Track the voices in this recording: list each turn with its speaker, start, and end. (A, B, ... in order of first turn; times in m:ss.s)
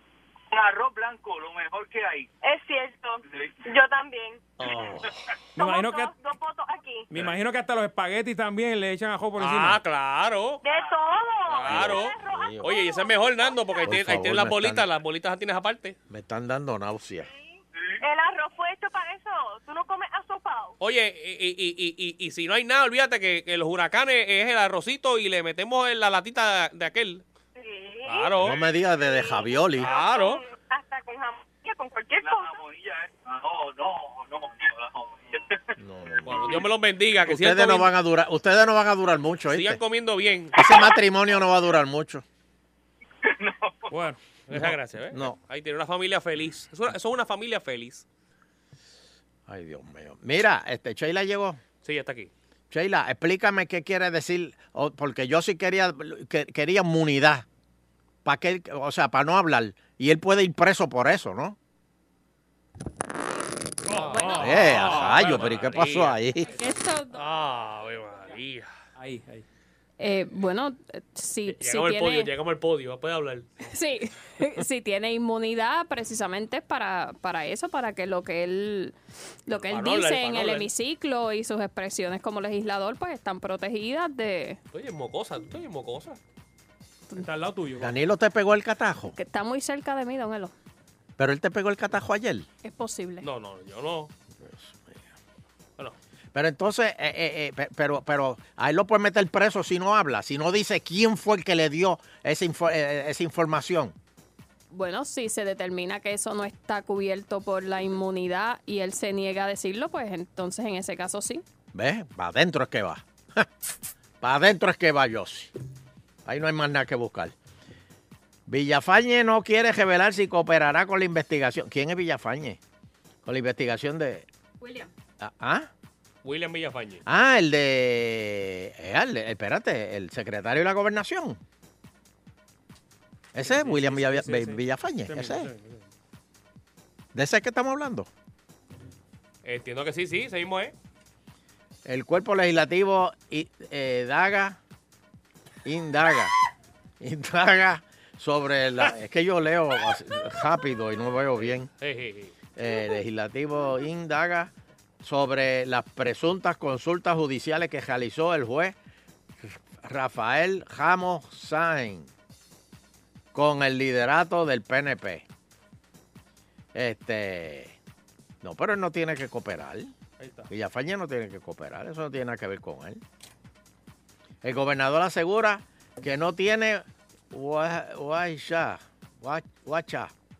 0:00.5-0:02.3 A
0:02.4-0:04.5 B
0:04.6-0:05.0 C
0:05.6-0:06.1 D
0:05.6-0:07.0 B
0:07.1-0:09.8 D
0:09.4-0:10.6 E
0:10.6-0:13.9 B
0:11.4-0:16.0 E
0:11.6-0:12.8 C
0:13.8-0:14.9 C
0:16.1-0:17.3 C
0:18.0-0:20.7 B
0:20.8-0:27.2 E
0:27.6-0:32.6 B
0:28.0-0:28.6 E
0:28.4-0:29.9 C
0:29.8-0:30.4 E
0:32.2-0:35.5 A
0:35.8-0:36.6 C
0:36.2-0:37.9 E
0:37.2-0:39.8 C
0:39.5-0:40.6 E
0:40.5-0:42.2 C
0:43.4-0:43.7 A
0:43.9-0:44.6 D
0:44.5-0:48.0 E
0:44.5-0:45.3 C
0:49.5-0:51.6 C
0:51.8-0:52.3 E
0:52.7-0:57.4 C
0:58.2-1:01.6 C
1:03.8-1:05.7 D
1:03.9-1:06.2 E
1:04.0-1:04.8 F
1:04.4-1:06.5 C
1:06.5-1:07.2 F
1:07.1-1:08.7 E
1:09.0-1:09.4 D
1:10.0-1:12.3 F
1:11.4-1:13.5 E
1:13.6-1:24.6 F
1:19.7-1:20.7 E
1:24.7-1:26.2 E
1:27.2-1:27.9 D
1:27.8-1:29.2 C
1:29.2-1:30.5 F
1:31.2-1:32.5 C
1:32.6-1:33.3 F
1:33.2-1:34.1 E
1:34.4-1:35.0 C
1:36.3-1:43.9 C
1:44.7-1:51.4 F
1:51.7-1:53.5 C
1:54.2-1:55.5 C
1:56.2-1:57.3 C
1:58.5-2:02.6 C
2:03.2-2:04.3 C
2:04.6-2:04.9 F
2:05.2-2:05.7 C
2:06.2-2:07.0 E
2:07.0-2:11.4 C
2:13.3-2:15.5 C
2:13.4-2:15.9 D
2:17.1-2:18.1 C
2:19.4-2:20.7 E
2:21.8-2:24.6 C
2:25.6-2:26.3 C
2:27.0-2:31.7 C
2:31.4-2:32.3 E
2:32.6-2:34.5 C
2:35.0-2:38.8 C
2:39.4-2:42.1 C
2:43.3-2:45.2 C
2:46.7-2:47.8 C
2:48.4-2:49.9 C
2:50.2-2:50.5 D
2:50.5-2:53.0 C
2:54.4-3:00.1 C